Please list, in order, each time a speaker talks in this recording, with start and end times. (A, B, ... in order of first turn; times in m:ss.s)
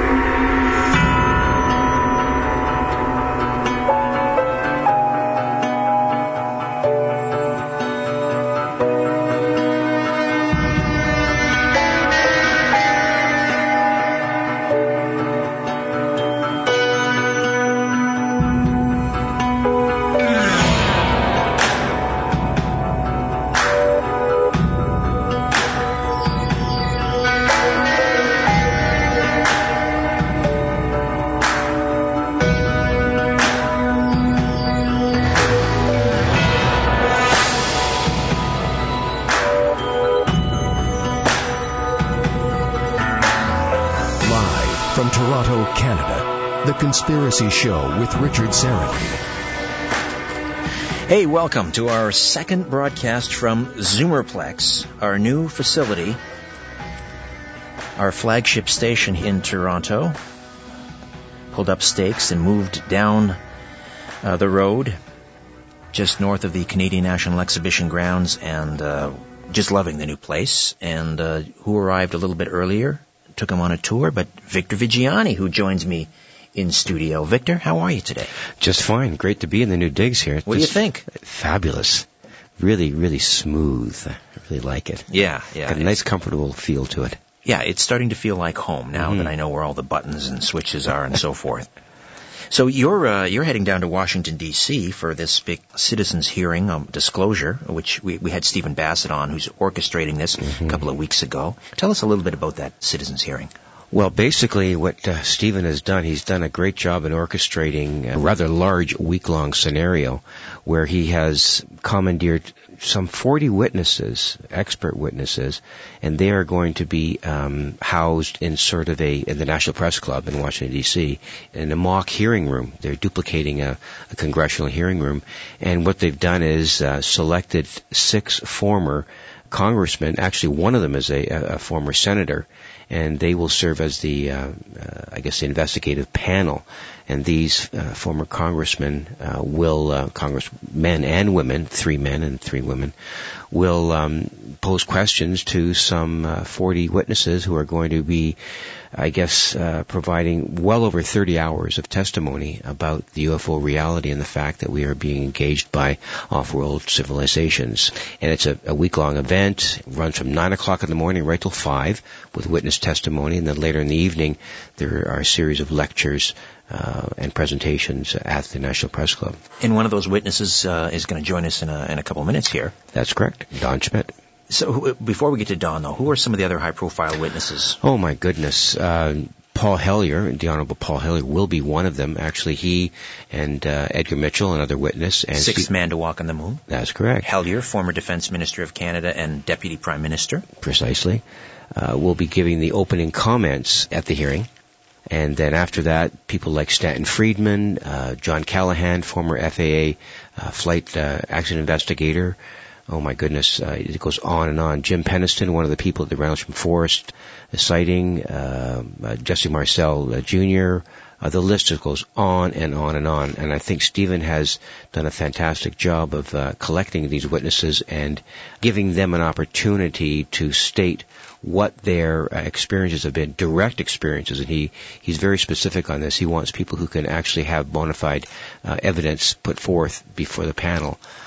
0:00.4-0:01.2 A
0:44.2-0:49.2 A
0:51.1-0:56.2 B
0:58.0-1:00.2 B
1:01.5-1:03.4 B
1:04.2-1:05.0 B
1:05.9-1:18.3 B
1:18.6-1:22.1 C
1:20.4-1:21.1 B
1:22.6-1:25.1 C
1:25.1-1:26.0 B
1:25.6-1:27.2 C
1:27.4-1:31.7 B
1:29.0-1:29.3 C
1:32.5-1:43.5 B
1:43.9-2:22.9 C
2:23.5-2:28.4 C
2:28.9-2:49.4 C
2:49.6-2:52.7 B
2:52.9-2:54.1 C
2:54.5-2:57.8 B
2:57.8-3:05.7 C
3:05.4-3:06.6 B
3:06.7-3:07.3 C
3:07.2-3:10.4 B
3:10.6-3:11.2 C
3:11.7-3:14.5 C
3:15.1-3:22.4 C
3:22.9-3:51.0 C